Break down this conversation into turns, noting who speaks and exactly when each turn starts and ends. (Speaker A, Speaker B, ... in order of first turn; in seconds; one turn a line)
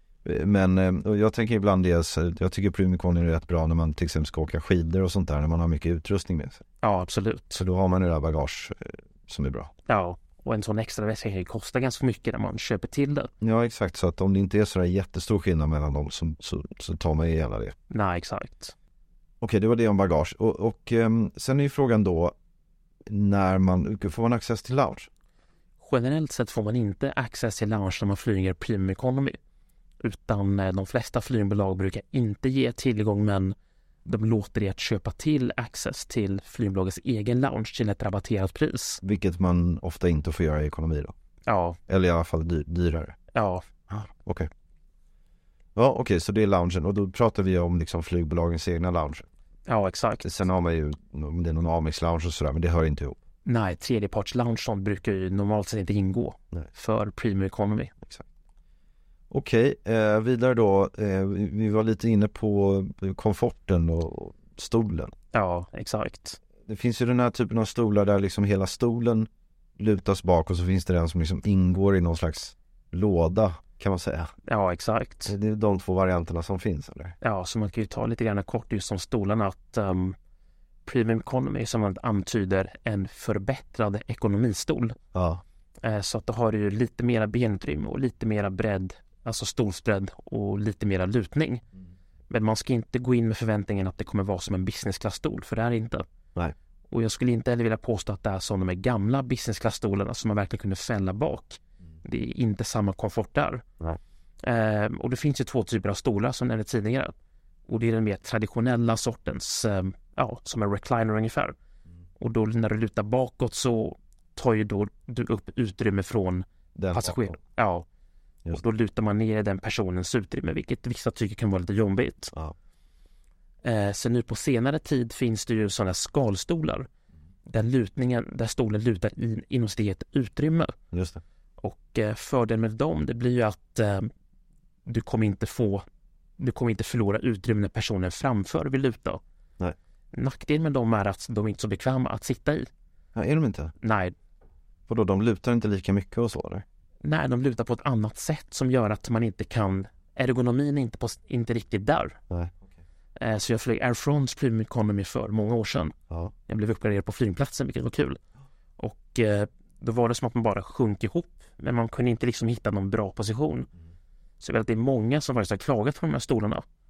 Speaker A: 0.2-6.6
Speaker B: 6.8-7.6
Speaker A: 7.5-9.7
Speaker B: 9.9-13.3
Speaker A: 13.4-17.8
Speaker B: 17.9-18.8
Speaker A: 19.4-22.4
Speaker A: 23.1-25.1
Speaker B: 25.8-29.4
Speaker B: 30.0-39.0
Speaker A: 39.0-41.1
Speaker B: 41.5-41.8
Speaker A: 41.9-43.1
Speaker B: 43.3-43.6
Speaker A: 43.9-44.5
Speaker A: 45.8-49.3
Speaker B: 49.7-50.2
Speaker A: 50.2-53.2
Speaker B: 53.5-57.9
Speaker A: 59.3-65.1
Speaker B: 65.3-66.4
Speaker A: 66.7-74.3
Speaker B: 74.5-75.3
Speaker A: 75.3-77.1
Speaker B: 77.2-80.2
Speaker B: 80.9-85.0
Speaker A: 85.1-85.4
Speaker B: 85.8-91.6
Speaker B: 92.3-96.0
Speaker B: 96.9-103.6
Speaker B: 104.4-107.1
Speaker B: 107.7-111.5
Speaker B: 112.2-117.9
Speaker A: 116.8-117.4
Speaker B: 118.5-122.3
Speaker B: 123.6-126.9
Speaker B: 127.5-130.7
Speaker A: 130.9-131.2
Speaker B: 131.6-134.1
Speaker B: 134.9-135.8
Speaker B: 136.4-139.2
Speaker B: 140.1-142.7
Speaker A: 143.1-143.7
Speaker B: 143.8-144.1
Speaker A: 144.9-146.6
Speaker B: 147.0-152.2
Speaker A: 152.3-152.6
Speaker B: 153.2-155.9
Speaker B: 156.5-158.2
Speaker B: 158.8-163.7
Speaker B: 164.4-166.6